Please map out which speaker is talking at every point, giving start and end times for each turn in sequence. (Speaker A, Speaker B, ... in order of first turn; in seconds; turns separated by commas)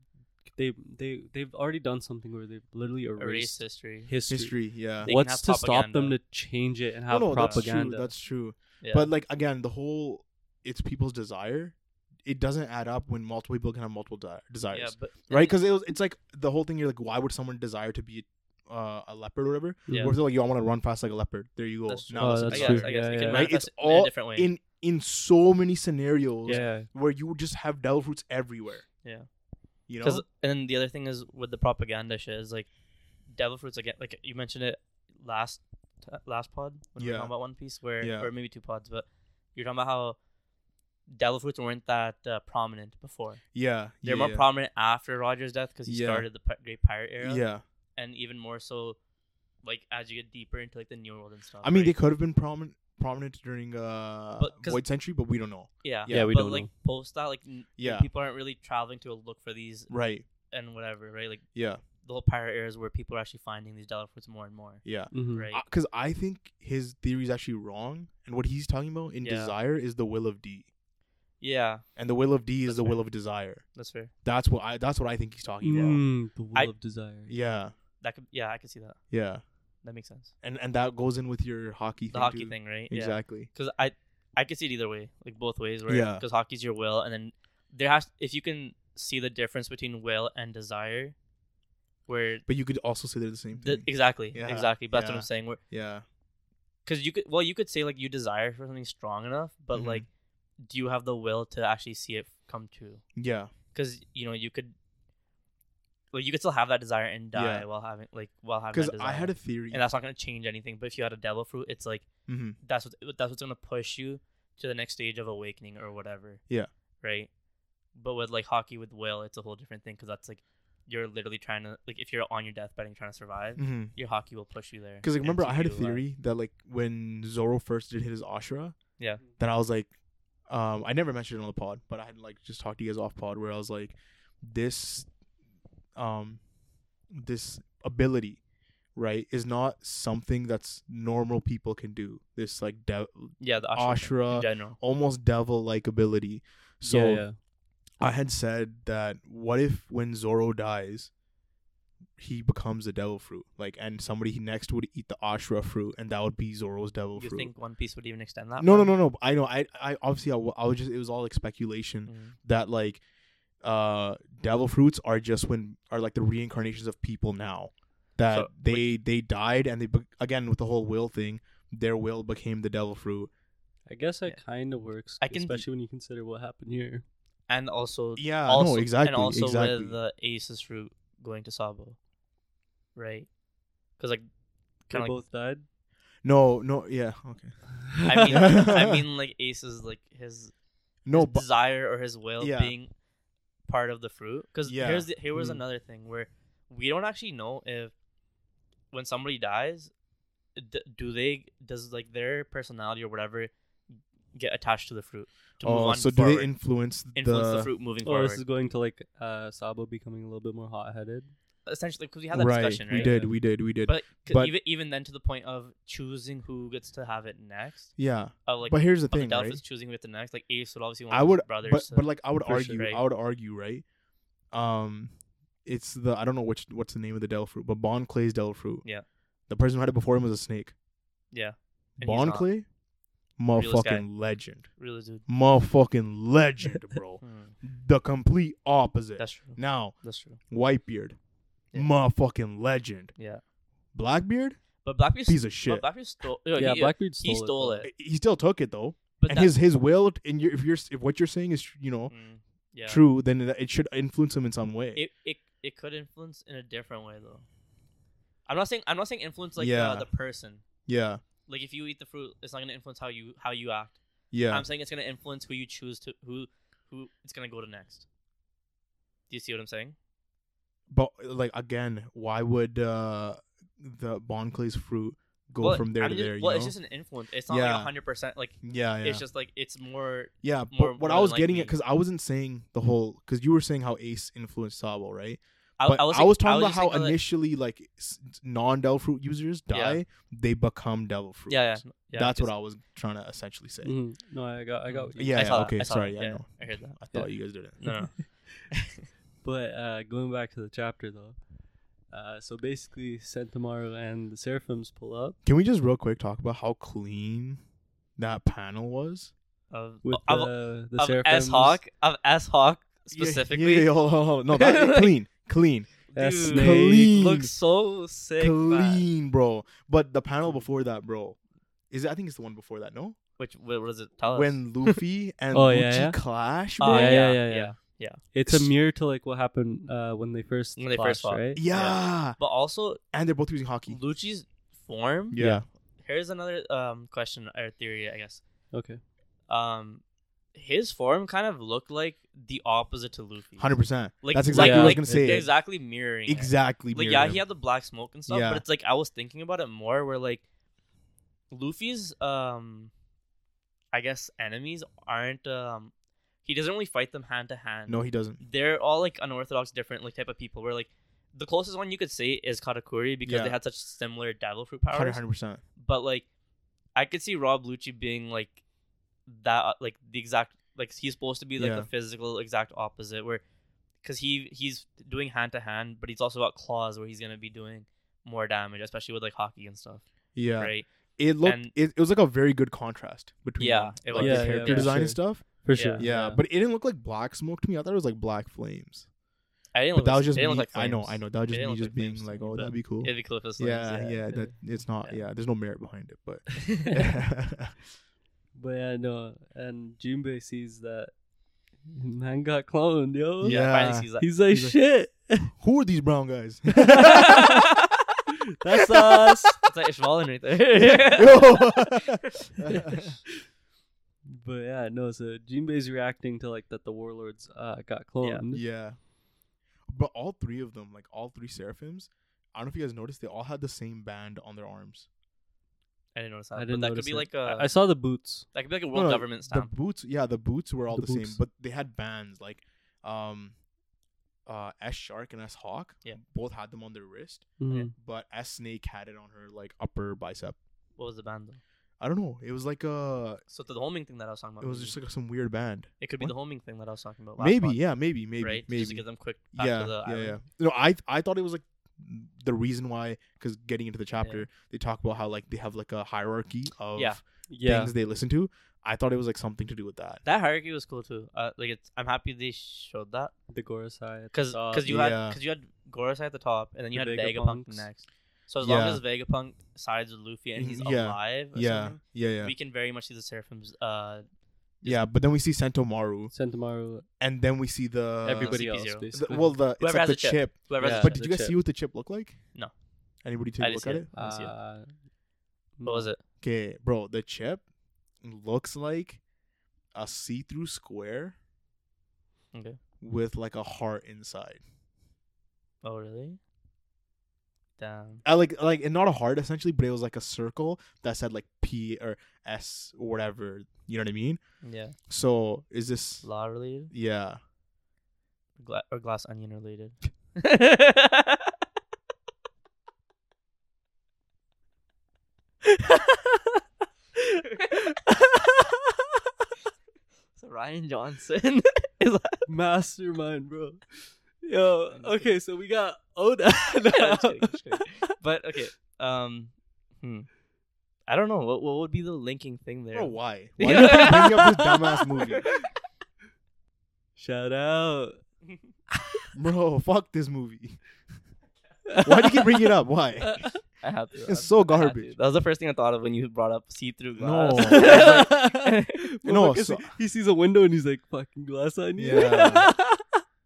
Speaker A: 0.5-8.1, Speaker B: 3.2-4.1, Speaker C: 4.3-5.1, Speaker B: 5.0-6.2, Speaker C: 7.1-28.9, Speaker B: 7.3-7.7, Speaker B: 8.8-9.1, Speaker B: 14.7-15.6, Speaker A: 19.9-20.2, Speaker B: 19.9-20.1, Speaker B: 21.9-24.5, Speaker A: 22.2-23.5, Speaker B: 26.4-26.7, Speaker A: 26.5-26.9, Speaker B: 29.0-29.3, Speaker C: 29.9-30.2, Speaker B: 30.0-32.7, Speaker B: 33.3-40.2, Speaker C: 37.0-37.4, Speaker C: 38.0-38.3, Speaker B: 41.1-43.4, Speaker C: 43.5-44.5, Speaker B: 44.0-47.5, Speaker C: 45.9-46.3, Speaker C: 47.2-47.6, Speaker B: 48.0-49.0, Speaker B: 49.6-52.0, Speaker C: 51.6-56.3, Speaker B: 54.4-54.8, Speaker B: 55.8-65.6, Speaker A: 56.1-56.7, Speaker C: 57.8-58.1, Speaker C: 59.9-60.2, Speaker C: 61.5-61.8, Speaker C: 64.8-70.7, Speaker A: 65.1-65.5, Speaker B: 69.2-69.5, Speaker B: 71.4-71.9, Speaker C: 72.0-73.7, Speaker B: 72.6-73.0, Speaker B: 73.7-74.1, Speaker C: 74.2-76.0, Speaker A: 75.6-77.3, Speaker C: 77.3-77.7, Speaker B: 78.0-79.0, Speaker C: 79.1-79.4, Speaker B: 79.8-80.3, Speaker C: 80.4-83.5, Speaker B: 82.1-91.1, Speaker C: 85.9-86.2, Speaker B: 92.1-92.5, Speaker C: 92.5-96.0, Speaker B: 93.5-95.6, Speaker B: 96.8-100.1, Speaker C: 99.7-100.1, Speaker B: 100.6-103.0, Speaker C: 103.1-103.5, Speaker B: 103.7-104.7, Speaker B: 106.1-112.1, Speaker C: 107.3-107.7, Speaker C: 108.7-109.8, Speaker C: 112.2-112.6, Speaker B: 112.6-116.4, Speaker B: 117.0-117.3, Speaker B: 117.9-126.0, Speaker C: 123.6-124.0, Speaker C: 125.0-128.8, Speaker C: 129.4-129.9, Speaker C: 130.5-135.1, Speaker C: 135.9-136.4, Speaker C: 137.1-138.4, Speaker C: 138.9-147.3, Speaker B: 143.4-144.8, Speaker A: 146.8-147.4, Speaker C: 148.0-151.1, Speaker C: 152.2-157.5, Speaker B: 157.2-159.0, Speaker C: 158.6-163.0, Speaker B: 162.1-162.4, Speaker C: 163.6-173.3, Speaker B: 168.3-168.9, Speaker A: 173.9-177.0, Speaker B: 175.2-175.7, Speaker B: 177.5-182.0, Speaker C: 178.2-180.0, Speaker B: 182.9-183.3, Speaker B: 183.9-184.2, Speaker B: 184.8-185.2, Speaker A: 184.9-185.7, Speaker C: 186.2-189.0, Speaker B: 188.0-190.5, Speaker C: 191.0-191.5, Speaker B: 191.1-192.9, Speaker C: 192.4-192.8, Speaker B: 193.7-197.9, Speaker C: 194.7-195.1, Speaker A: 195.3-195.6, Speaker B: 198.9-199.9, Speaker B: 200.6-203.5, Speaker B: 204.3-206.5, Speaker C: 205.6-207.7, Speaker B: 207.1-208.4, Speaker A: 208.0-211.3, Speaker B: 211.7-213.2, Speaker C: 212.3-214.5, Speaker A: 212.9-213.4, Speaker B: 213.8-223.0, Speaker C: 218.0-219.6, Speaker C: 221.1-223.9, Speaker A: 222.5-222.7, Speaker C: 224.5-228.9, Speaker C: 229.5-230.8, Speaker B: 231.3-232.5, Speaker C: 232.0-232.7, Speaker C: 233.4-241.2, Speaker B: 233.5-234.1, Speaker B: 234.8-235.2, Speaker B: 237.2-237.5, Speaker B: 239.2-240.4, Speaker C: 241.7-243.1, Speaker B: 243.2-243.4, Speaker C: 243.9-244.6, Speaker B: 244.8-247.9, Speaker C: 245.2-245.9, Speaker A: 246.5-247.9, Speaker C: 247.8-252.1, Speaker B: 249.2-249.5, Speaker B: 252.1-253.0, Speaker C: 252.9-255.0, Speaker B: 254.9-257.5, Speaker B: 258.5-260.6, Speaker C: 259.6-260.1, Speaker C: 260.9-261.2, Speaker B: 261.5-268.1, Speaker C: 264.3-264.7, Speaker B: 269.3-270.0, Speaker C: 270.9-276.8, Speaker B: 275.6-281.8, Speaker C: 277.5-277.9, Speaker C: 278.6-279.2, Speaker C: 280.4-294.0, Speaker B: 285.8-287.2, Speaker B: 289.7-290.0, Speaker B: 291.5-292.5, Speaker A: 293.8-295.8, Speaker B: 294.9-297.2, Speaker C: 295.2-298.1, Speaker B: 297.8-298.8, Speaker A: 297.8-298.2, Speaker A: 299.4-301.4, Speaker A: 302.1-305.4, Speaker C: 305.4-307.6, Speaker C: 308.2-309.3, Speaker B: 309.7-314.0, Speaker A: 310.0-311.8, Speaker C: 313.1-317.5, Speaker B: 314.5-315.1, Speaker B: 316.1-319.0, Speaker A: 316.1-317.1, Speaker C: 318.4-321.4, Speaker C: 321.9-323.2, Speaker B: 323.4-325.0, Speaker C: 324.3-327.3, Speaker A: 325.5-326.2, Speaker A: 326.8-327.8, Speaker B: 326.8-328.2, Speaker A: 328.3-331.6, Speaker C: 328.4-328.7, Speaker B: 330.8-333.0, Speaker C: 331.5-332.4, Speaker C: 333.1-334.0, Speaker B: 333.9-335.4, Speaker C: 335.3-335.7, Speaker A: 335.3-335.6, Speaker B: 336.0-338.4, Speaker A: 338.7-339.0, Speaker B: 339.5-340.0, Speaker B: 340.5-350.4, Speaker C: 343.6-345.6, Speaker A: 344.5-345.3, Speaker C: 346.3-347.4, Speaker C: 348.3-348.6, Speaker B: 351.5-352.9, Speaker B: 353.9-355.9, Speaker B: 356.4-365.2, Speaker C: 357.9-358.4, Speaker C: 363.2-363.6, Speaker C: 364.9-365.6, Speaker B: 365.8-366.3, Speaker B: 366.9-368.6, Speaker B: 369.3-373.4, Speaker C: 371.6-371.9, Speaker B: 374.0-380.9, Speaker C: 380.3-389.1, Speaker B: 381.4-381.7, Speaker B: 383.6-385.1, Speaker A: 384.2-386.4, Speaker B: 385.7-386.2, Speaker B: 389.7-395.2, Speaker C: 389.9-397.8, Speaker A: 398.5-401.1, Speaker A: 401.8-405.5, Speaker C: 403.4-404.8, Speaker B: 403.4-404.3, Speaker C: 405.5-407.5, Speaker A: 406.8-407.4, Speaker B: 407.1-407.8, Speaker A: 408.6-409.6, Speaker B: 409.6-412.4, Speaker C: 411.1-413.1, Speaker A: 414.3-418.7, Speaker C: 418.5-419.0, Speaker C: 419.9-425.1, Speaker B: 426.1-427.8, Speaker A: 426.6-428.5, Speaker B: 428.5-429.7, Speaker C: 428.9-433.6, Speaker A: 430.9-431.4, Speaker C: 434.5-440.6, Speaker A: 437.6-437.9, Speaker B: 441.0-441.6, Speaker C: 442.0-443.4, Speaker B: 443.5-445.0, Speaker C: 444.6-446.3, Speaker B: 446.0-447.8, Speaker C: 447.4-460.2, Speaker B: 448.4-450.4, Speaker B: 454.2-454.5, Speaker B: 457.0-457.2, Speaker A: 457.5-457.9, Speaker B: 460.2-463.3, Speaker A: 463.5-464.9, Speaker B: 464.3-474.3, Speaker C: 464.8-465.4, Speaker A: 466.9-467.9, Speaker C: 468.6-469.0, Speaker C: 470.6-472.5, Speaker B: 474.8-475.1, Speaker C: 474.8-476.3, Speaker A: 476.3-477.1, Speaker C: 477.2-482.5, Speaker A: 478.2-479.6, Speaker B: 478.4-481.2, Speaker A: 480.8-481.6, Speaker C: 483.2-484.1, Speaker B: 483.6-484.5, Speaker A: 484.1-485.0, Speaker A: 485.8-486.1, Speaker B: 485.8-486.2, Speaker C: 486.4-487.6, Speaker C: 488.2-489.2, Speaker C: 489.9-491.4, Speaker B: 492.5-492.8, Speaker C: 493.0-494.6, Speaker B: 495.8-496.4, Speaker B: 497.8-498.2, Speaker C: 498.2-506.3, Speaker B: 504.6-505.0, Speaker B: 506.2-506.9, Speaker C: 506.9-507.4, Speaker B: 508.6-511.5, Speaker A: 515.8-516.2, Speaker A: 517.4-518.9, Speaker B: 520.4-522.5, Speaker A: 522.5-528.0, Speaker B: 524.9-525.3, Speaker B: 526.9-530.3, Speaker B: 531.1-534.4, Speaker C: 532.9-535.5, Speaker A: 533.7-534.8, Speaker A: 537.2-538.2, Speaker A: 539.0-539.2, Speaker C: 539.3-540.8, Speaker A: 541.9-542.7, Speaker C: 542.0-543.6, Speaker B: 543.8-549.0, Speaker C: 544.2-545.1, Speaker C: 547.2-548.4, Speaker A: 547.6-553.0, Speaker C: 549.2-549.9, Speaker C: 552.0-552.7